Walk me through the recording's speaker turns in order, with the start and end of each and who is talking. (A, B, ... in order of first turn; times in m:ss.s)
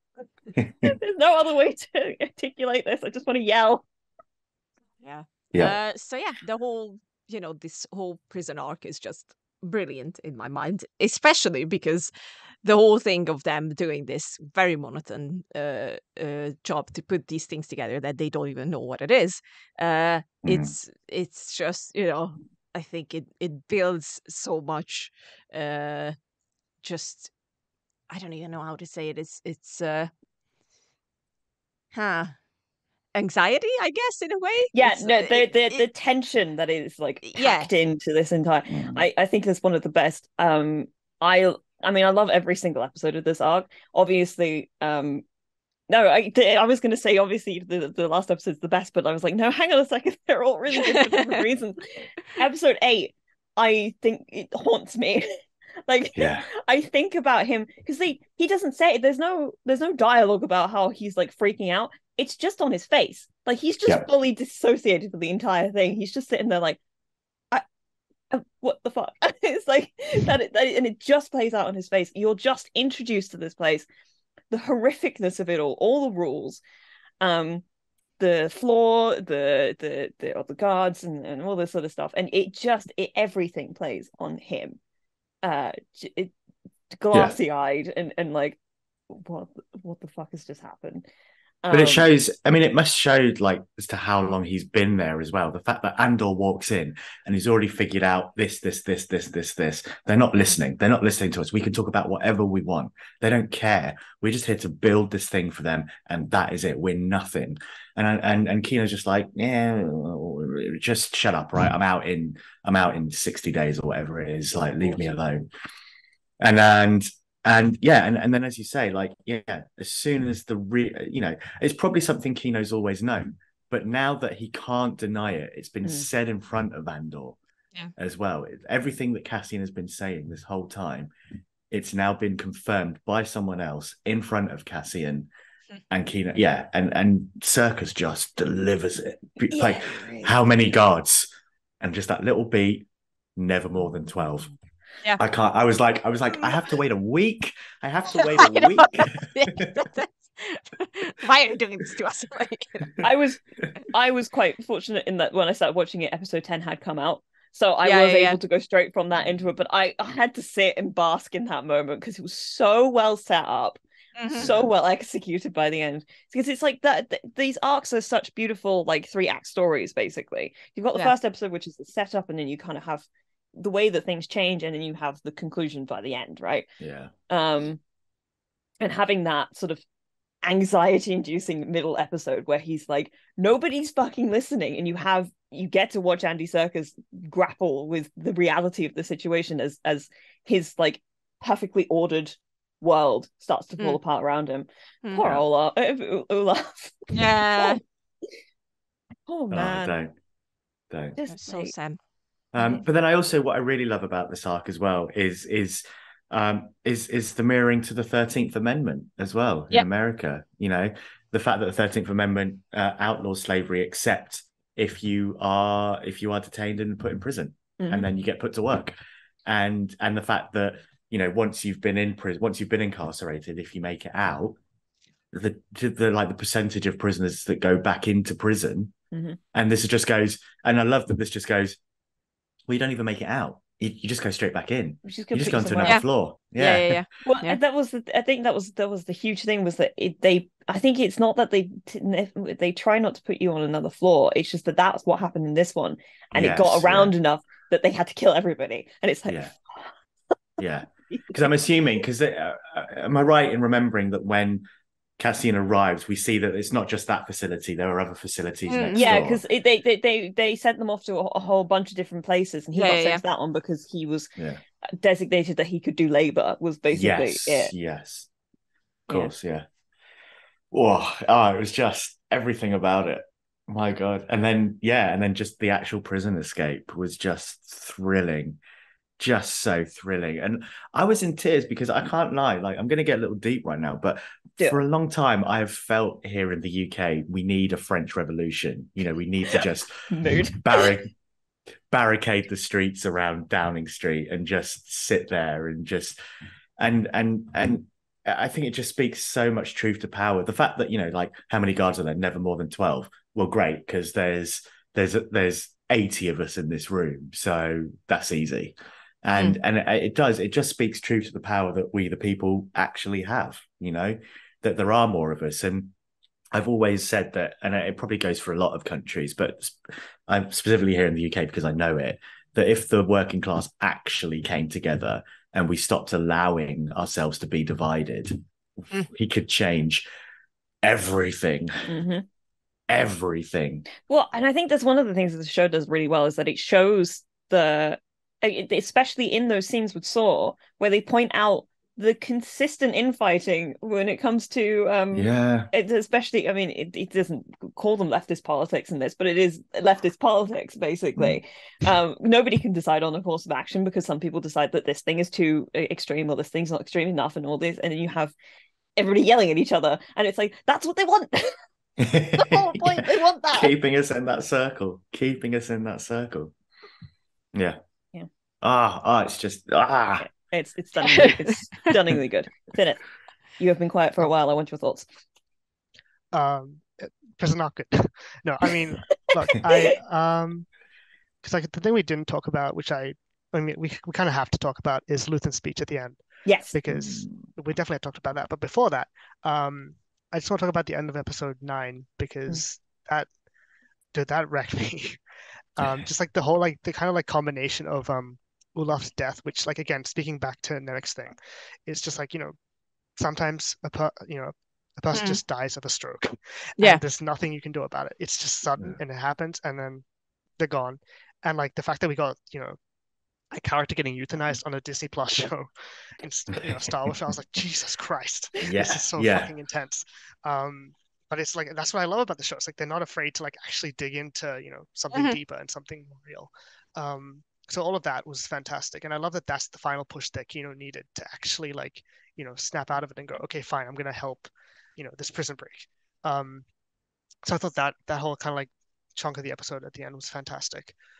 0:00.6-0:00.9 A
0:00.8-0:03.8 B
0:05.0-0:12.1 C
0:12.6-0:26.2 C
0:20.4-0:20.7 A
0:26.8-0:27.3 C
0:28.1-0:30.1 C
0:31.9-0:32.3 C
0:33.1-0:35.8 C
0:34.7-0:45.2 B
0:37.2-0:37.7 C
0:38.7-0:39.0 A
0:45.9-0:55.3 B
0:50.9-0:51.3 C
0:55.9-1:06.8 B
0:56.2-0:56.5 A
1:08.3-1:13.8 B
1:14.5-1:16.6 B
1:17.2-1:17.6 B
1:18.2-1:24.8 B
1:25.4-1:26.3 B
1:26.9-1:28.6 B
1:29.1-1:31.1 B
1:31.6-1:32.1 B
1:31.7-1:55.5 A
1:56.4-2:07.4 A
2:08.0-2:11.1 A
2:11.7-2:15.3 A
2:15.9-2:21.3 A
2:19.5-2:20.3 B
2:21.8-2:24.5 A
2:25.2-2:29.8 A
2:28.1-2:33.0 C
2:33.0-2:43.8 B
2:37.8-2:38.4 C
2:44.2-2:44.5 C
2:44.3-2:56.7 B
2:44.4-2:44.7 A
2:56.8-2:57.1 A
2:57.3-2:57.8 B
2:58.8-2:59.8 B
3:00.4-3:17.8 B
3:17.1-3:17.8 C
3:19.3-3:19.9 B
3:19.5-3:20.1 A
3:20.9-3:21.2 A
3:21.2-3:21.7 B
3:21.3-3:22.0 C
3:22.5-3:38.9 A
3:37.8-3:38.1 B
3:39.4-3:44.6 A
3:45.3-3:48.9 A
3:49.1-3:49.4 B
3:49.5-3:51.8 A
3:52.7-3:57.0 A
3:55.0-3:56.0 B
3:56.6-3:57.6 C
3:57.2-4:09.9 B
4:06.3-4:07.1 A
4:09.3-4:09.5 A
4:10.6-4:14.6 A
4:11.1-4:11.4 B
4:15.2-4:19.4 A
4:18.7-4:19.1 C
4:18.9-4:24.3 B
4:22.7-4:23.2 C
4:25.0-4:27.7 B
4:26.9-4:28.3 A
4:29.1-4:29.6 A
4:30.7-4:38.6 A
4:39.2-4:49.9 A
4:50.1-4:50.9 B
4:50.5-4:51.1 A
4:51.9-4:56.2 A
4:56.8-5:15.9 A
5:16.5-5:28.4 A
5:29.1-5:30.0 A
5:30.8-5:31.9 A
5:31.9-5:32.2 B
5:32.9-5:33.8 A
5:34.1-5:58.3 B
5:45.1-5:45.7 A
5:59.0-6:01.6 B
6:02.0-6:06.5 A
6:02.4-6:03.7 B
6:08.6-6:10.3 A
6:10.2-6:13.0 B
6:11.1-6:11.5 C
6:13.6-6:15.0 B
6:16.3-6:20.7 D
6:21.4-6:26.2 D
6:26.4-6:26.7 B
6:26.7-6:33.3 D
6:26.9-6:27.4 A
6:34.1-6:35.2 D
6:35.8-6:42.5 D
6:43.2-6:50.0 D
6:45.1-6:45.4 C
6:50.6-6:52.8 D
6:53.5-7:16.6 D
6:58.6-6:59.5 A
7:05.1-7:05.4 C
7:17.4-7:20.9 D